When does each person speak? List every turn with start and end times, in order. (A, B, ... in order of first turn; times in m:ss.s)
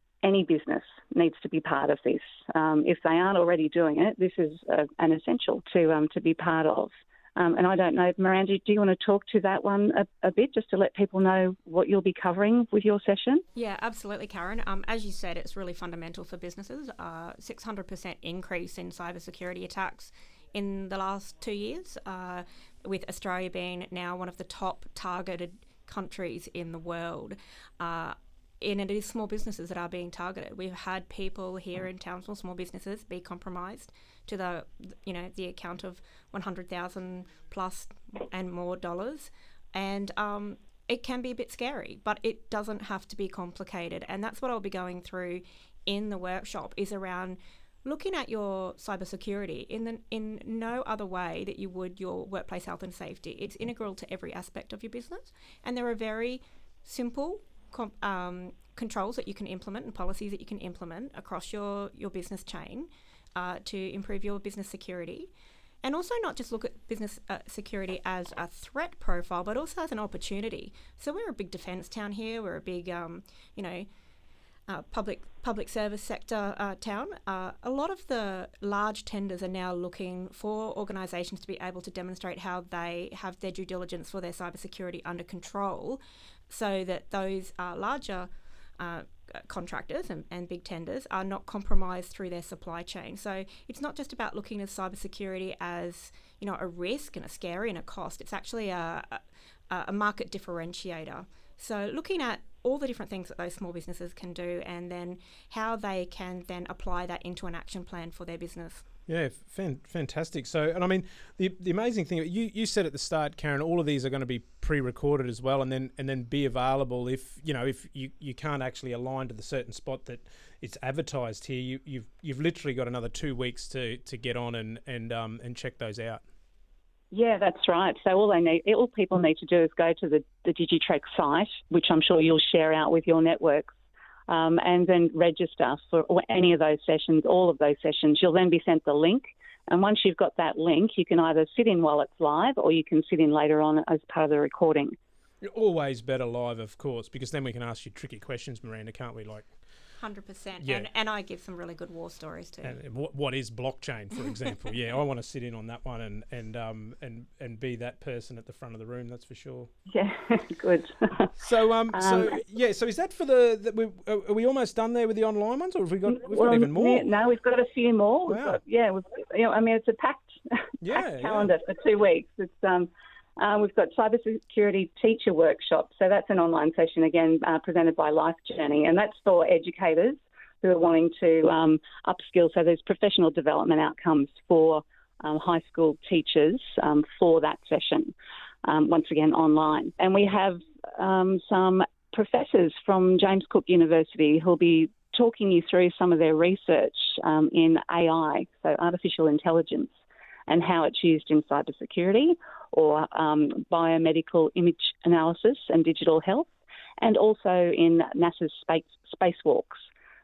0:00.2-0:13.4 A
0:13.5-1:05.3 B
1:05.8-1:13.9 B
1:14.7-1:48.8 B
1:49.1-2:06.2 C
2:07.1-2:13.7 A
2:14.3-2:25.0 A
2:25.4-2:29.5 C
2:30.0-2:32.8 B
2:32.6-2:39.7 C
2:39.9-2:41.4 A
2:41.4-2:47.1 C
2:41.9-2:42.4 A
2:46.1-3:08.1 A
2:48.3-2:48.6 C
2:50.8-2:51.5 C
3:08.6-3:19.9 A
3:20.5-3:29.8 A